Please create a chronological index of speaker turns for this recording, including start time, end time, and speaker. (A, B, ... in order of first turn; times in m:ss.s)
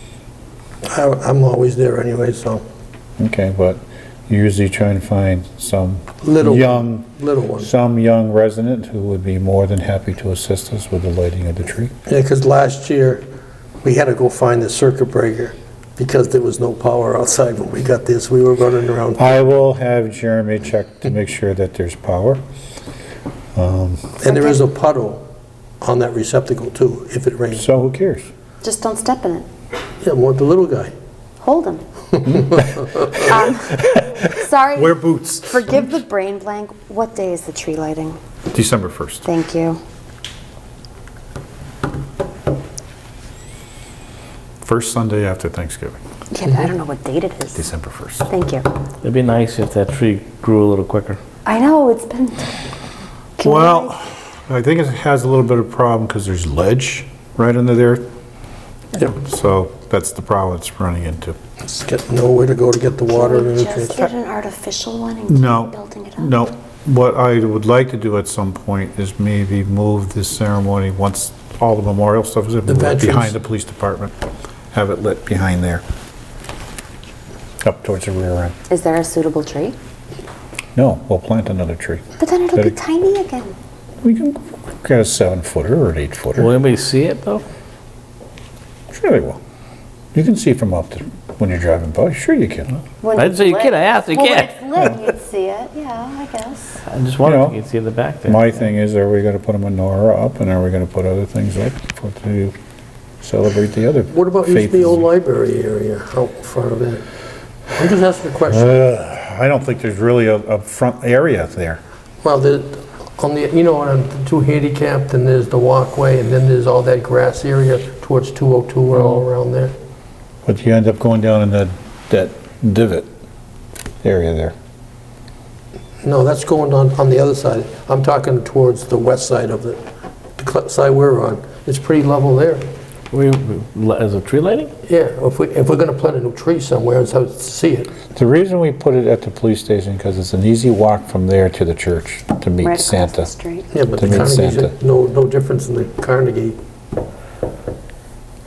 0:00.8-0:02.6 A
0:03.2-0:11.9 B
0:06.2-0:07.7 A
0:12.1-0:13.2 A
0:13.8-0:19.3 A
0:19.2-0:22.4 B
0:23.6-0:24.2 B
0:24.2-0:25.2 A
0:24.3-0:24.6 C
0:25.8-0:27.7 A
0:27.5-0:28.3 B
0:28.6-0:29.5 C
0:30.0-0:30.9 A
0:31.4-0:31.8 C
0:32.3-0:33.1 A
0:33.1-0:38.2 C
0:34.8-0:35.8 B
0:38.5-0:39.3 B
0:39.2-0:39.8 C
0:44.6-0:46.0 B
0:46.3-0:47.6 C
0:47.6-0:48.3 B
0:48.3-0:48.7 C
0:49.0-0:51.2 D
0:51.5-0:52.5 C
0:53.4-0:54.0 C
0:53.4-0:58.0 B
0:59.0-1:01.4 B
1:01.7-1:04.1 A
1:03.1-1:06.3 C
1:05.3-1:14.1 B
1:12.7-1:13.4 A
1:14.7-1:15.8 B
1:17.6-1:18.6 B
1:18.7-1:19.8 C
1:20.8-1:22.0 B
1:22.2-1:23.6 C
1:24.0-1:26.5 B
1:26.4-1:27.4 D
1:28.9-1:29.4 B
1:30.1-1:32.7 B
1:33.0-1:36.8 C
1:33.2-1:35.0 D
1:36.8-1:38.7 D
1:37.2-1:37.6 B
1:38.2-1:42.6 B
1:43.2-1:45.0 B
1:44.1-1:47.0 A
1:47.8-1:48.8 A
1:48.5-1:51.8 B
1:52.2-1:59.8 A
2:00.5-2:03.1 B
2:04.0-2:04.6 B
2:06.0-2:09.8 A
2:10.4-2:12.7 A
2:13.1-2:14.7 D
2:14.8-2:17.9 A
2:18.2-2:23.3 B
2:22.6-2:23.7 C
2:23.7-2:26.6 A
2:24.0-2:24.7 B